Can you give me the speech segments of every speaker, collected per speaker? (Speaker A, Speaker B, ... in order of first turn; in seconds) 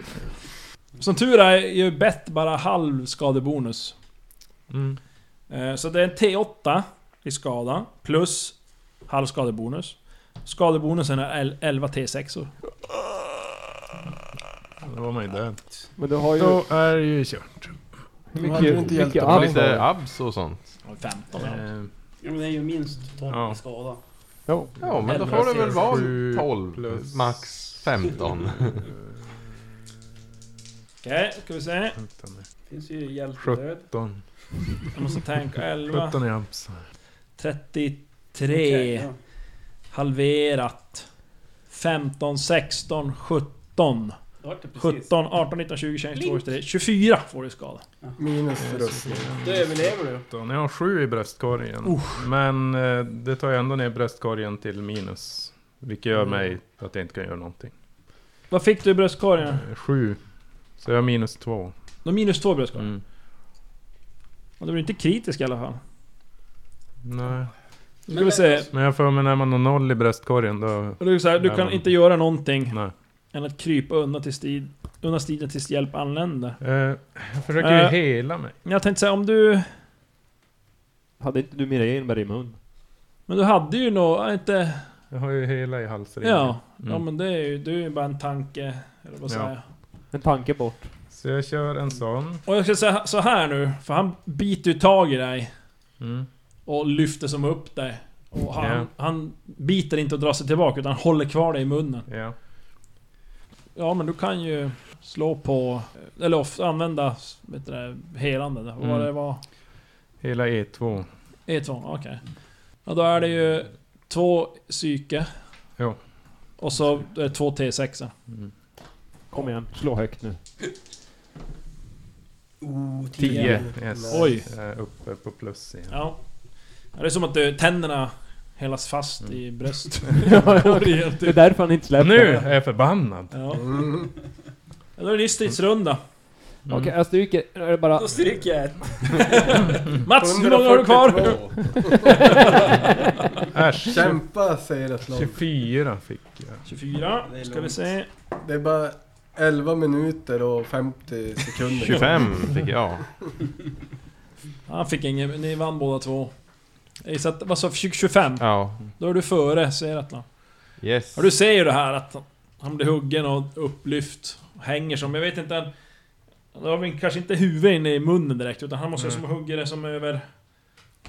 Speaker A: 1.0-4.0, 5.5-12.5, 20.8-21.6, 31.0-32.0, 34.9-36.2, 37.4-39.1, 39.9-41.1, 41.7-44.2, 44.8-47.8, 51.8-52.2, 58.5-59.6, 62.0-62.9, 64.6-65.8, 68.1-68.7, 71.0-72.8, 73.3-76.6, 77.6-78.0, 78.6-79.7, 83.3-84.8, 86.2-89.6, 92.4-95.5, 96.7-102.1, 103.8-109.4, 111.5-112.2, 112.8-115.3, 116.6-118.1, 124.1-124.5, 125.9-126.2, 126.9-131.4, 133.3-133.7, 135.0-136.0, 139.2-143.1, 146.7-148.1, 154.7-156.3, 157.0-160.3, 161.1-165.7, 166.5-170.2
Speaker B: 4.7-5.0, 14.8-15.6, 16.3-17.8, 21.4-21.9, 23.3-23.6, 24.8-29.4, 32.0-32.5, 33.4-34.2, 35.9-36.8, 48.6-57.7, 59.5-60.2, 60.8-61.7, 62.8-63.0, 67.0-67.5, 68.7-71.9, 76.6-78.5, 85.1-87.0, 91.1-92.4, 96.0-96.3, 98.6-98.9, 102.1-102.3, 108.8-109.1, 110.2-111.1, 123.2-126.0, 132.0-133.3, 136.7-136.9, 143.5-144.2, 145.1-146.6, 169.0-169.2
Speaker C: 15.9-16.6, 18.3-19.7, 24.5-24.8, 81.2-82.6, 90.1-90.8, 119.3-120.4, 130.2-132.5, 136.7-138.2
Speaker D: 18.4-19.9, 48.2-49.4, 133.6-134.1, 140.1-142.1, 143.8-145.4, 148.4-152.4
Speaker E: 19.2-20.7, 24.8-28.8, 151.8-153.1, 158.4-158.8, 160.8-161.3
Speaker F: 22.2-24.0, 25.0-26.0, 32.7-33.9, 38.5-39.2, 44.4-45.1, 46.1-46.4, 49.4-50.2, 68.1-68.7, 122.6-124.0, 137.9-139.8, 142.3-143.4, 147.2-147.8